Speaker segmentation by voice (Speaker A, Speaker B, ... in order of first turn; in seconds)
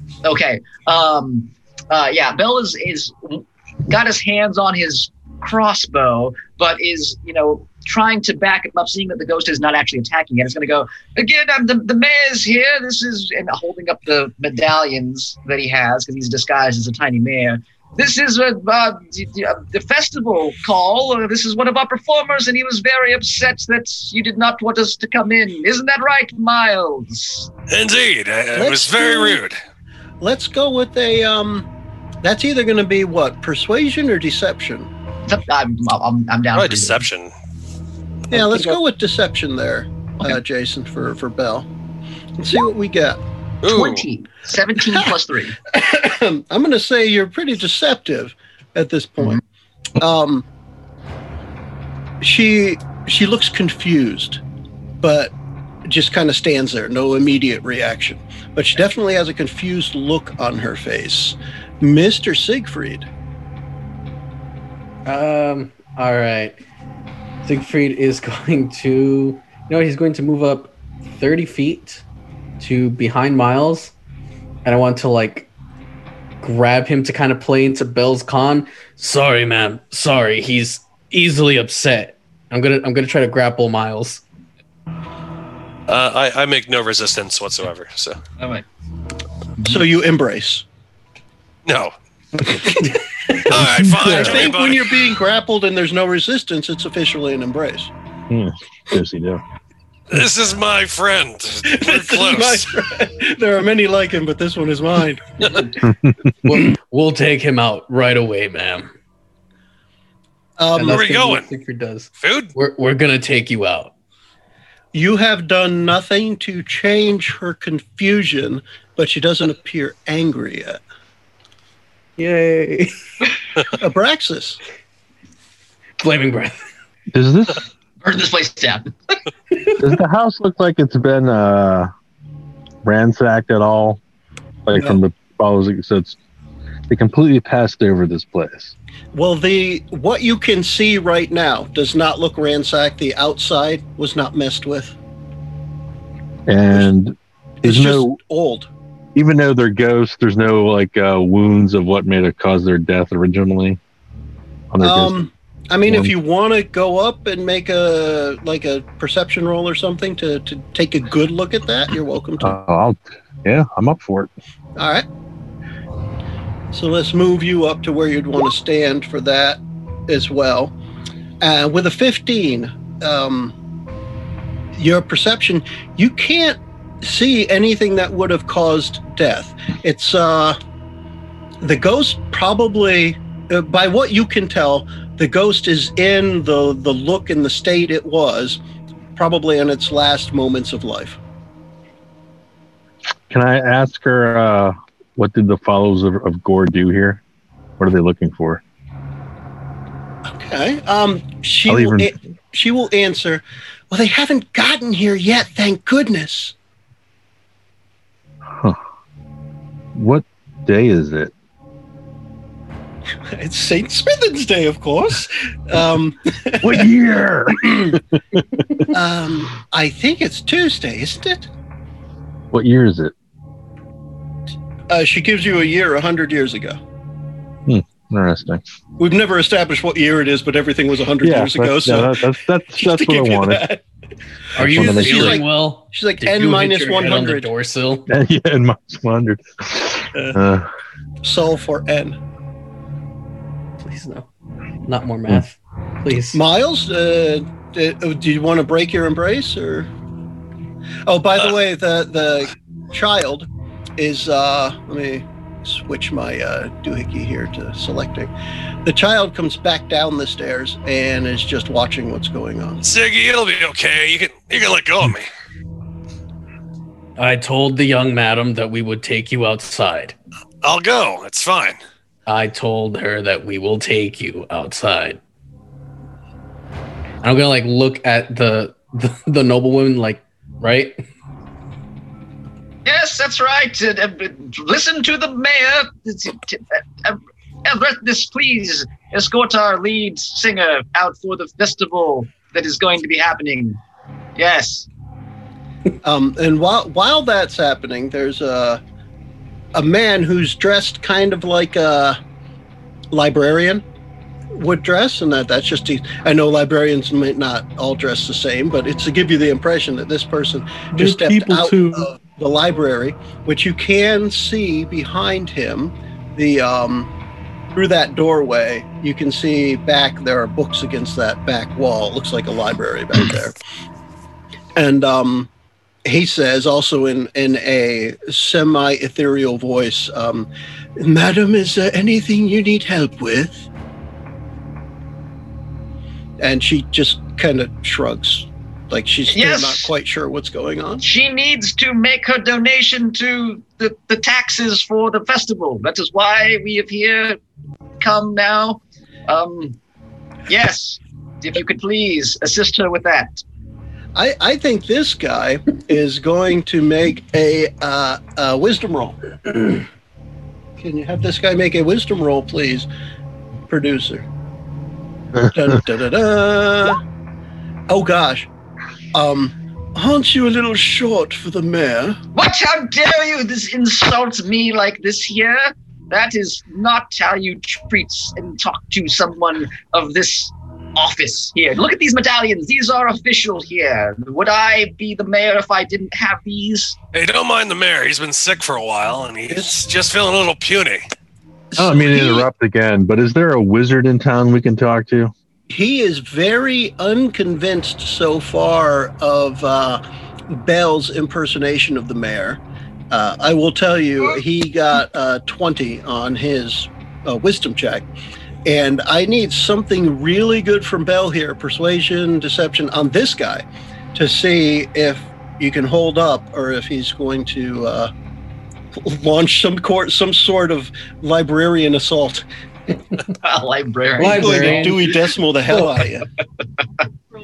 Speaker A: 0.2-27.5, 35.3-37.0, 43.7-45.6, 88.4-88.7, 128.0-128.9, 282.9-293.8, 294.4-294.9, 339.3-339.9, 341.0-347.4, 348.0-349.8, 350.5-353.4, 372.4-387.0, 423.4-424.9, 426.8-427.1
Speaker B: 27.7-29.6, 36.5-37.3, 43.6-44.0, 85.9-88.2, 91.7-91.9, 93.5-95.0, 100.1-102.7, 110.8-111.5, 112.2-112.5, 262.8-265.3, 270.6-271.8, 387.1-391.0
Speaker C: 28.5-29.4, 30.2-31.7, 32.2-34.9, 38.3-41.7, 42.4-43.2, 45.7-49.4, 50.0-50.5, 52.2-54.4, 55.0-55.3, 55.9-63.1, 89.7-90.7, 94.0-97.9, 101.7-105.6, 110.6-111.0, 114.9-120.8, 123.7-124.6, 134.8-135.0, 139.1-145.0, 147.6-148.7, 154.8-162.6, 164.8-165.1, 166.7-170.7, 171.4-173.6, 174.8-180.6, 181.6-188.6, 189.2-191.2, 200.3-206.6, 213.3-218.0, 218.9-221.5, 224.9-226.8, 229.0-233.8, 234.5-237.5, 240.1-240.4, 241.2-242.2, 246.3-249.9, 251.1-253.5, 254.0-258.3, 258.9-262.8, 296.0-298.8, 299.8-302.2, 303.1-303.8, 304.5-317.1, 317.8-323.6, 324.8-325.5, 326.1-333.7, 336.4-341.1, 354.1-359.2, 360.8-362.9, 363.7-364.3, 365.5-367.0, 367.9-368.5, 369.1-372.2, 389.5-389.8, 391.7-392.5, 395.7-408.1, 408.6-418.1, 419.0-422.5, 424.2-426.3
Speaker D: 65.1-66.6, 67.4-72.0, 72.6-73.9, 74.7-75.5, 76.4-84.2, 106.4-108.9, 110.7-113.9, 122.2-123.0, 126.0-126.6, 234.6-238.1, 243.8-244.3, 244.8-246.4, 267.2-270.1, 272.3-275.2, 277.2-281.0, 424.2-425.1
Speaker E: 93.5-94.4, 98.3-99.4, 127.1-127.6, 129.8-131.9, 132.8-134.0, 134.7-136.2, 136.9-138.7, 146.5-148.2, 149.2-153.8, 154.7-155.3, 155.9-156.1, 162.4-164.3, 193.3-197.2, 197.8-198.6, 201.7-202.2, 209.9-211.3, 216.6-218.4, 222.5-223.1, 227.7-228.6, 231.2-233.7, 234.6-235.4, 238.1-240.7, 310.9-312.1, 391.8-395.3